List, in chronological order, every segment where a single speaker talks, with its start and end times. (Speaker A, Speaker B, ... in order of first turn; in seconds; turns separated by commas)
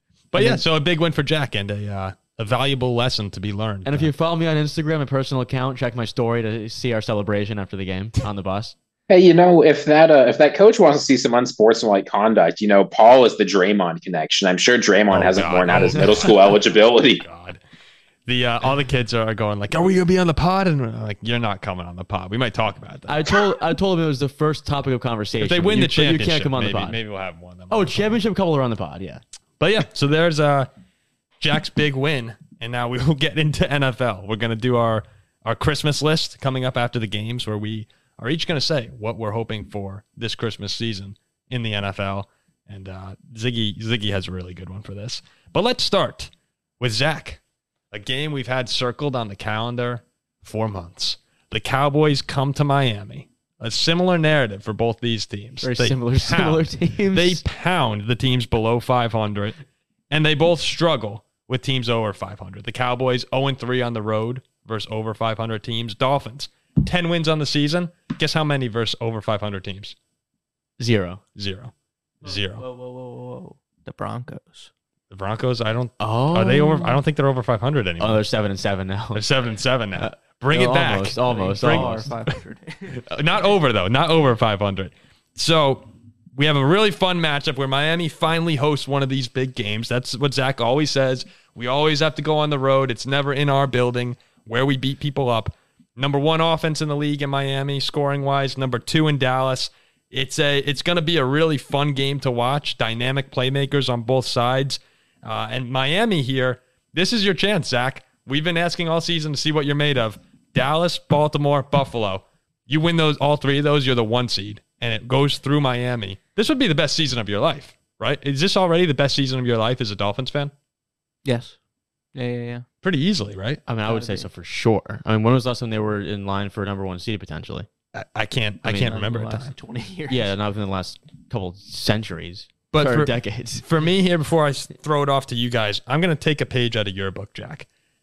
Speaker A: 0.3-4.1, Speaker B: 0.3-0.6, Speaker B: 3.9-8.8, Speaker C: 9.1-17.2, Speaker A: 15.1-16.6, Speaker A: 17.2-17.6, Speaker A: 18.3-23.4, Speaker B: 23.1-27.0, Speaker A: 25.4-28.1, Speaker B: 27.7-29.2, Speaker A: 29.6-30.7, Speaker A: 31.4-47.4, Speaker A: 47.9-59.6, Speaker B: 55.6-57.4, Speaker A: 60.1-70.0, Speaker B: 70.8-71.2, Speaker A: 71.4-72.7, Speaker D: 72.2-74.7, Speaker A: 75.1-78.2, Speaker B: 76.0-77.0, Speaker B: 78.0-79.2, Speaker A: 79.1-82.3, Speaker B: 80.0-82.1, Speaker D: 81.3-83.0, Speaker A: 82.9-120.5, Speaker D: 121.2-121.6, Speaker D: 122.1-122.7, Speaker A: 122.8-123.6, Speaker B: 123.7-127.7, Speaker D: 123.9-124.3, Speaker A: 127.9-129.5, Speaker B: 128.6-129.0, Speaker D: 128.8-130.3, Speaker B: 130.1-133.7, Speaker A: 132.7-137.7